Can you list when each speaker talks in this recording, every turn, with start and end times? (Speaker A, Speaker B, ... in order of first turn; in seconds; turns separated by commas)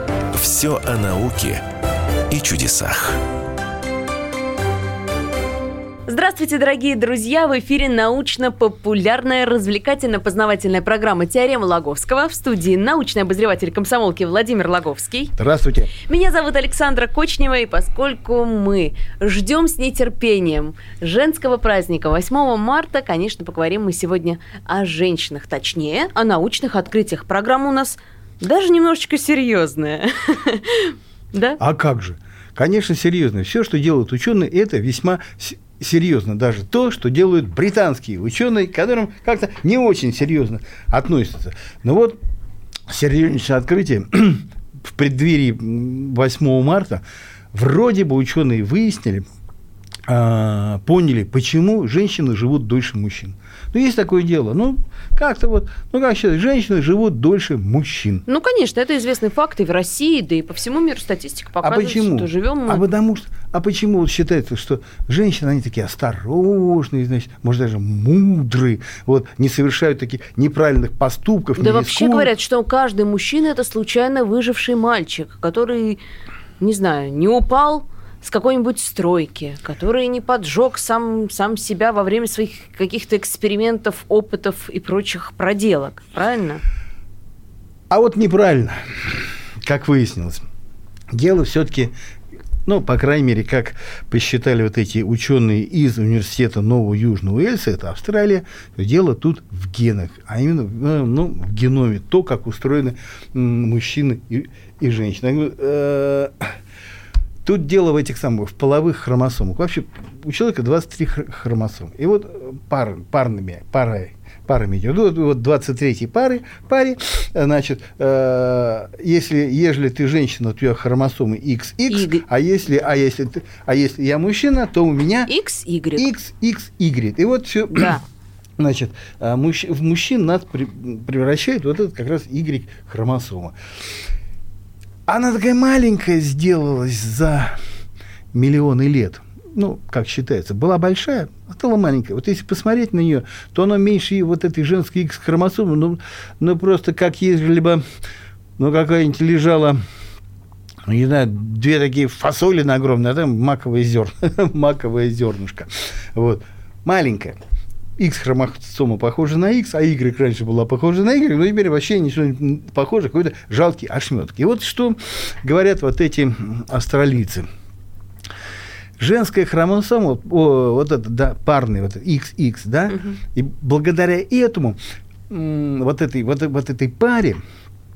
Speaker A: 0.3-1.6, Speaker A: 2.3-3.2, Speaker B: 6.1-15.3, Speaker C: 15.4-15.9, Speaker B: 15.9-31.6, Speaker C: 31.6-42.2, Speaker C: 42.9-49.2, Speaker C: 50.1-58.2, Speaker B: 58.3-62.8, Speaker C: 61.6-72.3, Speaker B: 71.6-76.0, Speaker B: 76.6-86.6, Speaker C: 87.9-90.4, Speaker C: 91.1-91.9, Speaker C: 92.7-106.5, Speaker C: 107.4-125.3, Speaker B: 121.9-122.2, Speaker B: 125.3-126.0, Speaker C: 126.0-127.9, Speaker C: 128.6-133.5, Speaker C: 135.1-137.6, Speaker C: 138.3-147.8, Speaker C: 148.6-149.8, Speaker C: 150.8-157.4, Speaker C: 158.0-167.5, Speaker C: 169.0-174.8, Speaker C: 175.3-177.4